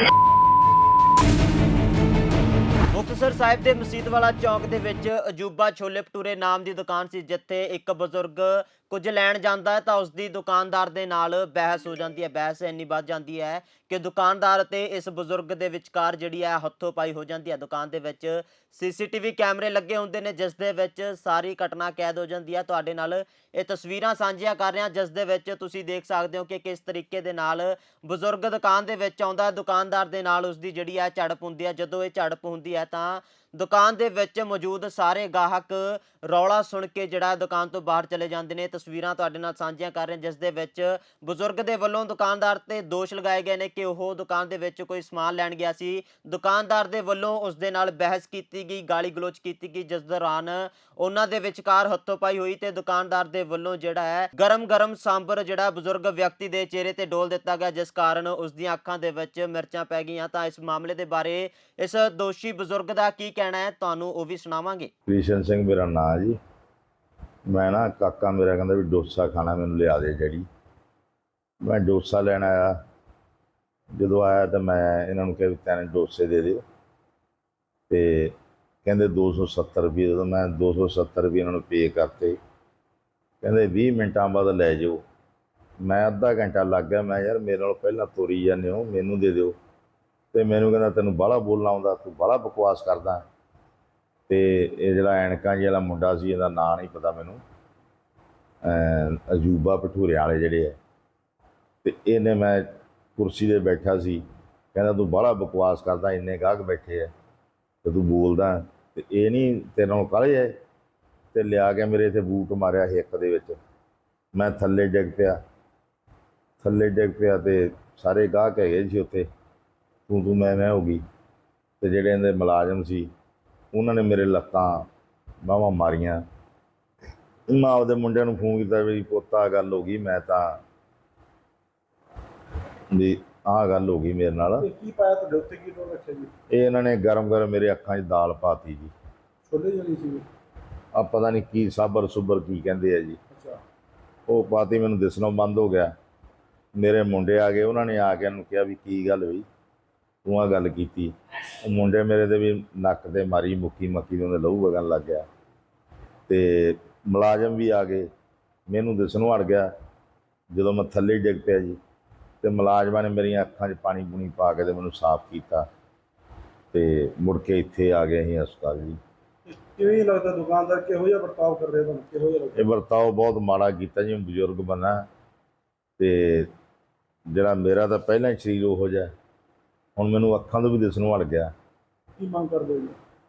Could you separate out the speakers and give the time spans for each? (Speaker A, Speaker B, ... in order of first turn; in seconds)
Speaker A: 2.9-64.9
Speaker B: 65.1-66.4, 67.5-70.5, 71.6-72.8, 73.9-76.6, 77.9-82.4, 83.4-85.0, 85.8-89.5, 90.3-93.2, 94.3-97.4, 98.6-100.8, 101.8-104.2, 104.7-107.1, 107.8-110.6, 111.3-113.6, 114.3-115.4, 116.6-119.3, 120.1-121.0, 121.8-123.1, 123.7-124.9, 125.4-126.2, 127.5-130.6, 132.9-134.7, 136.5-138.9, 140.9-143.2, 144.3-145.9, 146.8-149.4, 150.2-155.2, 156.3-158.1, 158.7-159.7, 160.5-161.8, 162.4-165.7, 166.7-169.0, 172.6-175.1, 176.0-176.5, 177.3-179.1, 180.0-181.5
Speaker C: 134.6-136.3, 139.5-140.2, 143.3-143.6, 169.5-172.7, 182.2-183.0